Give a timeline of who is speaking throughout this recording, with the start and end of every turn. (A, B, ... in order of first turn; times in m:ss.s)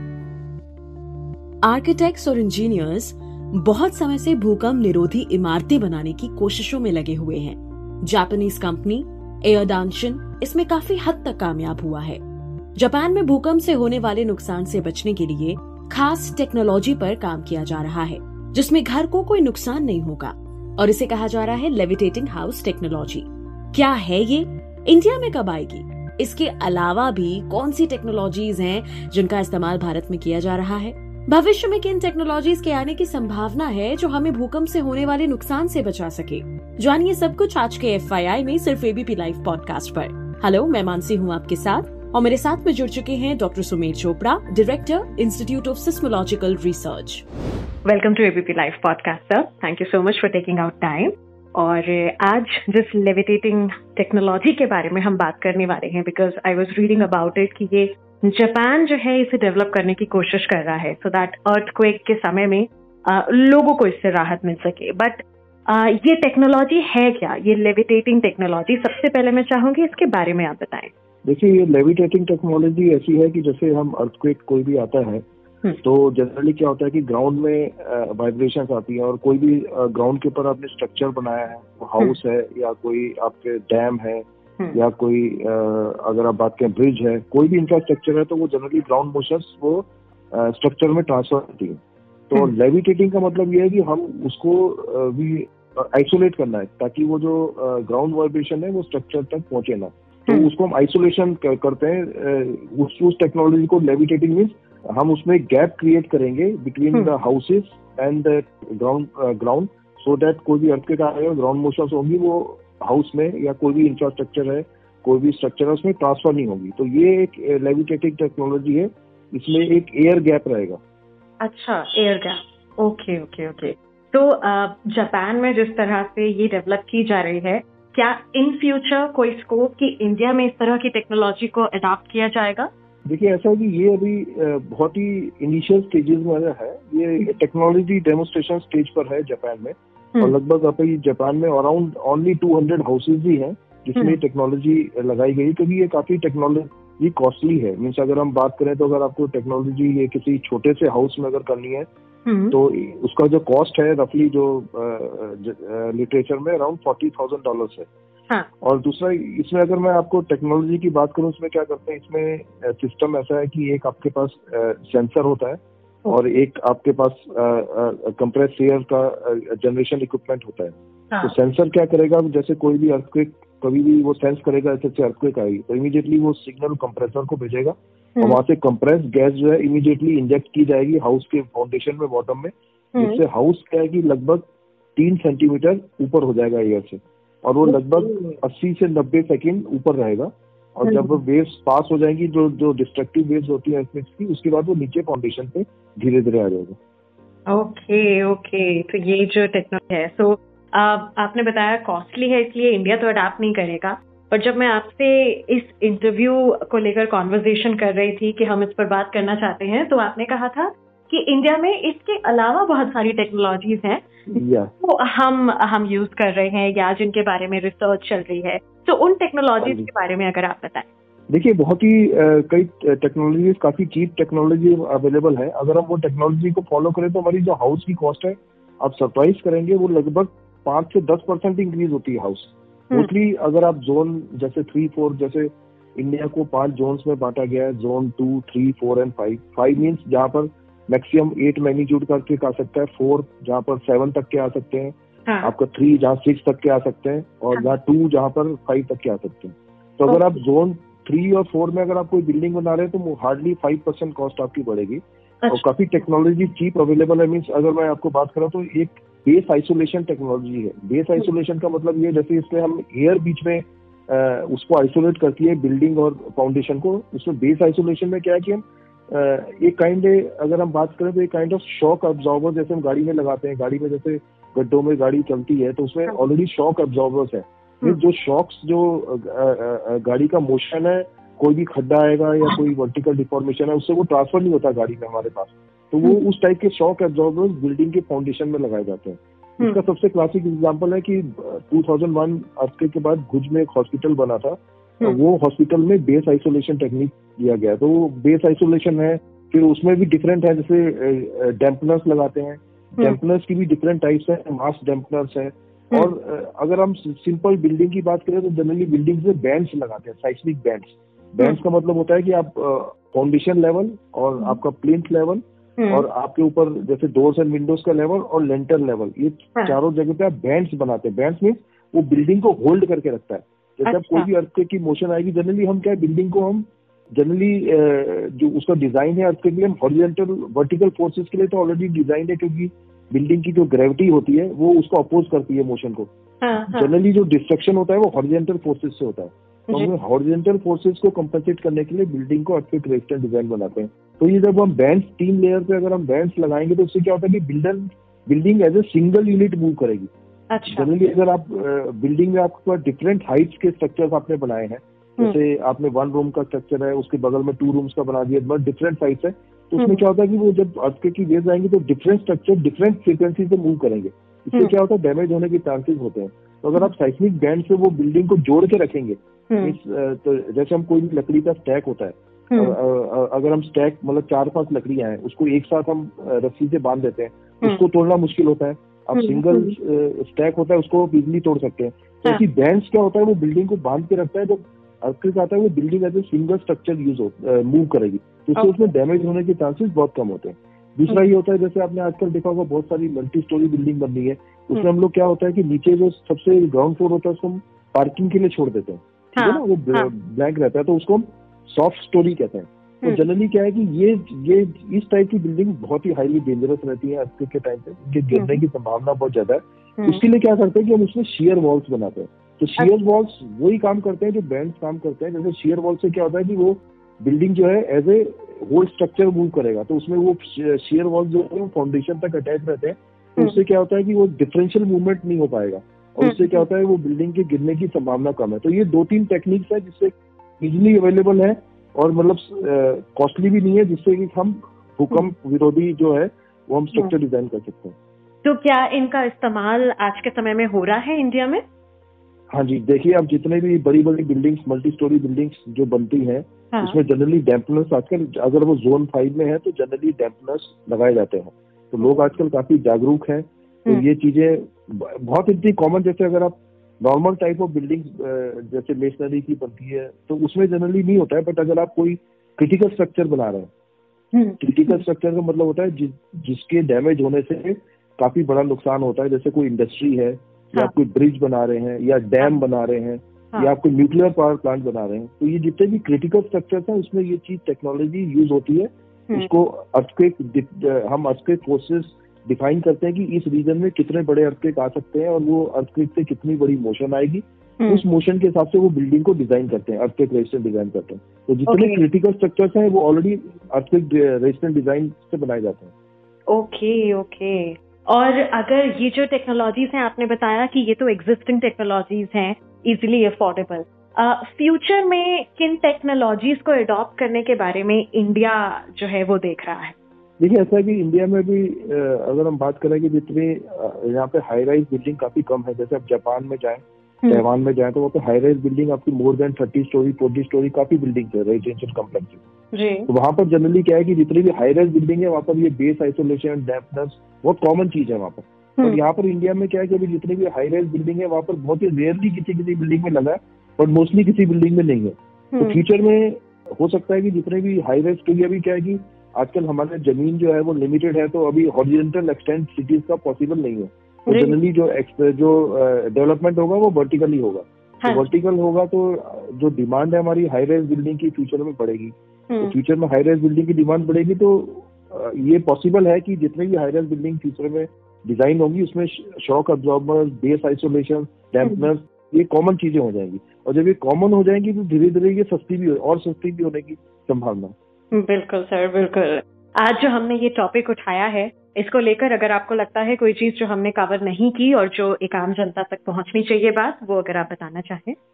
0:01.6-0:12.2 A
0:12.8-0:47.2 A
0:47.8-1:10.9 B
1:11.2-1:15.2 C
1:15.8-2:00.8 C
2:01.4-2:12.7 B
2:13.0-2:31.9 C
2:32.2-2:32.5 B
2:32.5-2:37.9 C
2:38.6-3:16.8 C
3:07.6-3:08.4 B
3:10.8-3:11.2 B
3:17.5-3:40.9 B
3:34.3-3:34.7 C
3:39.6-3:39.9 C
3:41.3-5:36.1 C
5:36.4-5:36.9 B
5:36.7-5:50.1 C
5:50.5-5:50.8 B
5:50.6-7:18.0 C
6:19.1-6:19.7 B
6:39.4-6:40.1 B
6:48.3-6:48.6 B
7:18.4-7:21.6 B
7:22.5-7:43.7 C
7:44.3-7:45.0 B
7:44.6-8:15.9 C
8:11.7-8:12.0 B
8:16.5-8:29.9 B
8:30.4-8:42.4 C
8:42.7-8:43.1 B
8:43.1-9:27.7 C
8:55.5-8:55.8 B
9:04.3-9:04.6 B
9:28.1-9:38.2 B